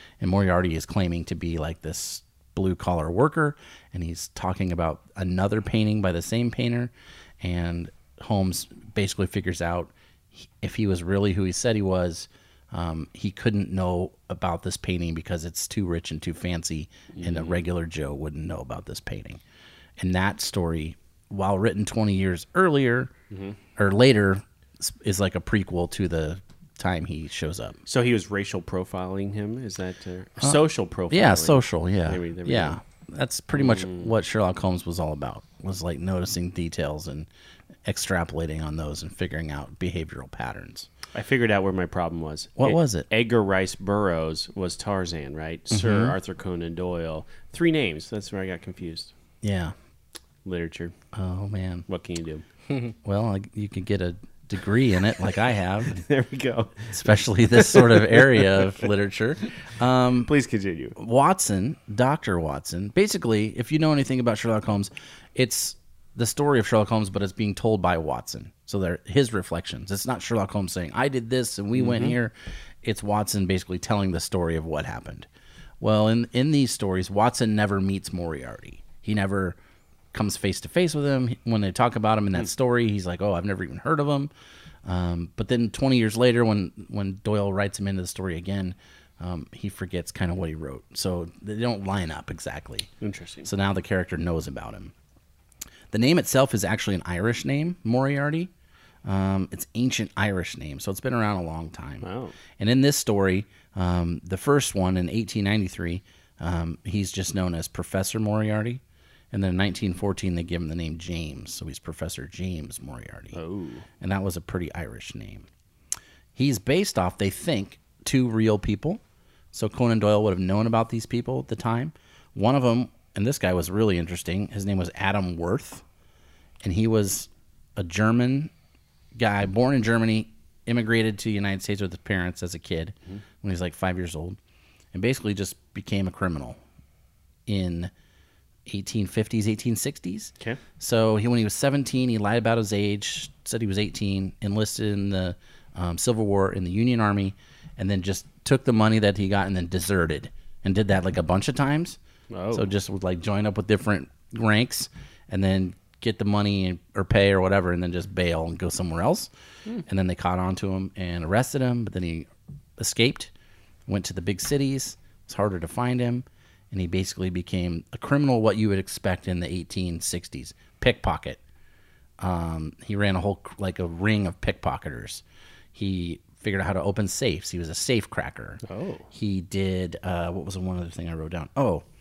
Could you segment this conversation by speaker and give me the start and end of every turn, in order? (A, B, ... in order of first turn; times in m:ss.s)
0:00.2-0:19.4 A
0:17.1-0:17.6 B
0:20.0-0:23.1 A
0:23.3-0:23.6 B
0:23.8-0:27.8 A
0:27.9-0:32.8 B
0:30.4-0:37.3 A
0:33.6-0:34.1 B
0:37.8-0:40.9 A
0:41.1-0:49.1 B
0:42.6-0:43.1 A
0:45.7-0:46.2 A
0:49.4-0:49.8 A
0:50.4-0:50.9 B
0:51.1-0:51.9 A
0:51.9-0:52.4 B
0:53.0-0:56.0 A
0:55.8-0:58.9 B
0:56.9-1:00.3 A
1:00.2-1:01.0 B
1:01.0-1:15.3 A
1:11.8-1:12.2 B
1:15.8-1:19.6 A
1:20.1-1:24.3 A
1:24.8-1:32.9 A
1:33.0-1:33.5 B
1:33.4-1:34.9 A
1:35.9-1:38.5 A
1:39.0-1:48.8 A
1:42.0-1:42.4 B
1:49.3-1:53.4 A
1:53.3-1:53.9 B
1:54.0-1:55.5 A
1:56.4-1:59.0 A
1:59.5-2:05.8 A
2:06.6-2:08.5 A
2:09.2-2:14.4 A
2:14.9-2:16.6 A
2:17.5-2:17.9 A
2:18.7-2:32.0 A
2:32.3-2:32.7 B
2:32.5-2:39.3 A
2:39.8-2:43.3 A
2:43.9-2:51.4 A
2:52.2-2:55.2 A
2:55.7-3:01.8 A
2:58.6-2:59.1 B